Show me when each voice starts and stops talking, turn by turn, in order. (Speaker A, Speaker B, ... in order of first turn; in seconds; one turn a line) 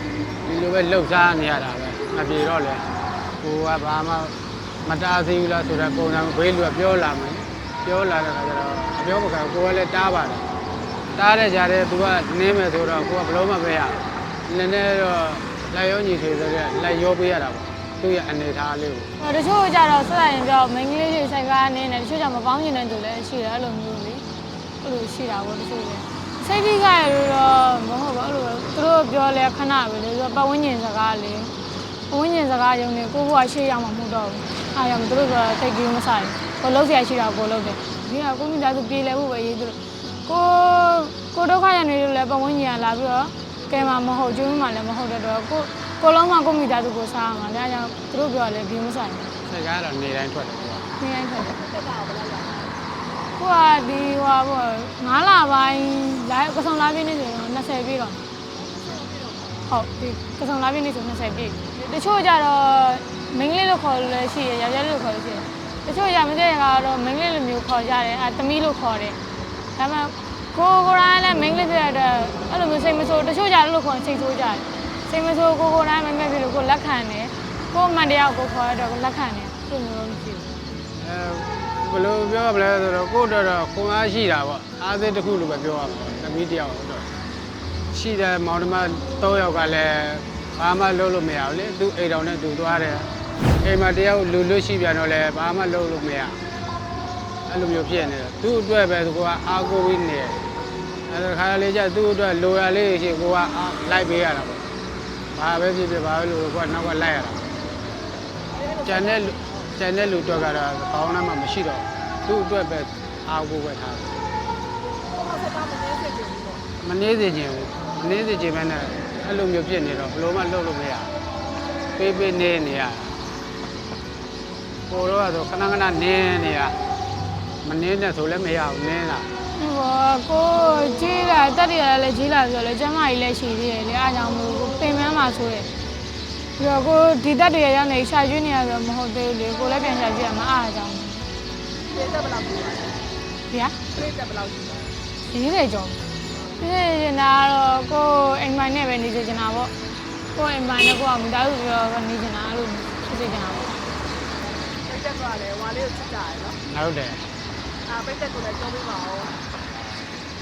Speaker A: 0.4-2.8
Speaker A: 3.4-10.4
Speaker A: 11.1-19.1
Speaker B: 19.2-24.2
Speaker B: 24.8-31.5
Speaker B: 32.1-49.3
Speaker A: 49.4-50.9
Speaker B: 51.0-51.6
Speaker C: 51.5-52.8
Speaker B: 53.4-58.2
Speaker C: 58.6-59.6
Speaker B: 59.7-69.2
Speaker B: 69.8-80.5
Speaker A: 81.0-87.1
Speaker A: 87.9-96.4
Speaker A: 97.5-100.4
Speaker A: 101.1-104.7
Speaker A: 105.3-107.5
Speaker C: 108.5-109.7
Speaker A: 108.8-114.1
Speaker C: 115.1-116.6
Speaker A: 116.8-121.1
Speaker A: 122.0-123.2
Speaker A: 124.9-126.8
Speaker A: 127.6-129.3
Speaker B: 129.5-135.7
Speaker B: 136.6-141.2
Speaker C: 141.8-143.0
Speaker B: 143.5-143.8
Speaker C: 143.9-144.9
Speaker B: 145.3-146.0
Speaker B: 146.6-149.7
Speaker B: 150.3-153.7
Speaker C: 154.8-156.6
Speaker A: 156.7-157.2
Speaker C: 157.8-159.3